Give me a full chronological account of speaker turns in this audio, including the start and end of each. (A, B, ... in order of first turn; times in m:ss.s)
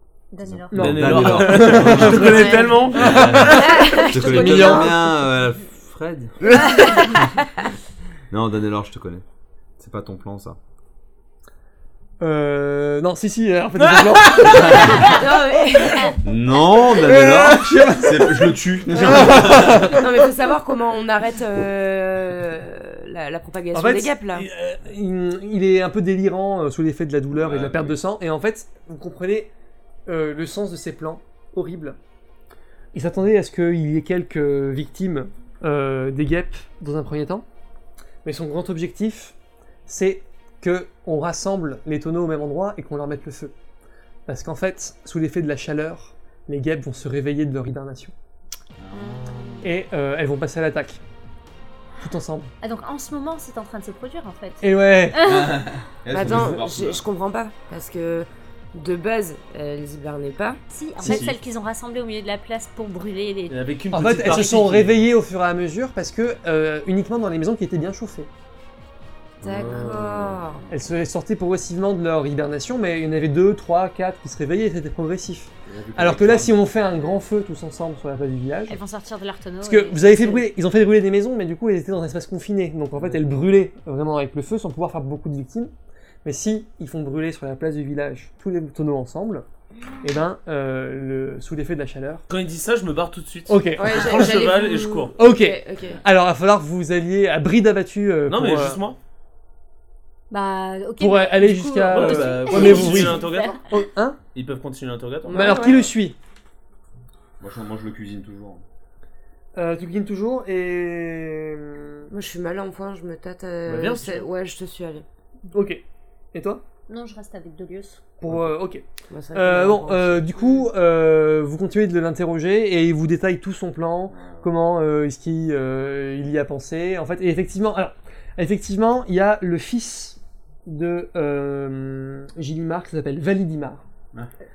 0:00.3-0:03.0 A
0:00.4-0:07.0 B
0:00.7-0:05.0 C
0:00.8-0:03.6 D
0:03.5-0:05.2 E
0:03.8-0:04.0 A
0:06.4-0:07.5 E
0:06.5-0:07.2 A
0:08.3-0:09.2 B
0:09.8-0:10.6 B
0:12.2-0:15.2 C
0:13.8-0:14.6 D
0:14.4-0:15.1 B
0:14.6-0:16.2 E
0:16.2-0:20.1 B
0:17.0-0:20.0 C
0:19.1-0:24.5 E
0:23.7-0:29.5 C
0:27.4-0:28.0 B
0:30.1-0:32.0 C
0:32.9-0:37.4 C
0:38.2-0:39.4 C
0:39.9-0:43.5 C
0:44.3-0:48.1 C
0:48.8-0:49.7 B
0:48.9-0:49.6 A
0:49.6-0:51.0 C
0:52.0-0:52.5 C
0:52.6-0:55.7 A
0:54.6-0:55.4 C
0:55.2-0:57.0 B
0:56.1-1:00.6 E
0:56.2-0:56.4 C
1:00.7-1:03.6 A
1:01.0-1:01.4 B
1:03.5-1:05.0 D
1:03.9-1:08.3 C
1:09.4-1:10.7 B
1:09.4-1:10.6 E
1:10.7-1:18.8 C
1:15.7-1:16.7 B
1:18.7-1:20.5 A
1:19.6-1:25.7 C
1:26.2-1:29.4 C
1:30.0-1:32.2 C
1:32.3-1:35.2 D
1:33.5-1:34.5 C
1:33.8-1:36.0 E
1:35.2-1:38.8 C
1:38.3-1:39.0 D
1:40.3-1:43.6 A
1:41.0-1:44.2 C
1:41.9-1:43.6 D
1:42.5-1:43.2 E
1:44.3-1:45.8 D
1:45.3-1:45.8 E
1:45.3-1:46.2 C
1:47.4-1:48.6 B
1:49.6-1:52.1 C
1:52.1-1:55.0 E
1:53.7-1:54.3 D
1:55.5-1:55.8 C
1:56.3-1:56.6 C
1:56.9-1:58.0 A
1:58.2-1:58.8 C
1:59.1-2:00.3 E
1:59.3-2:13.8 C
2:04.1-2:04.5 B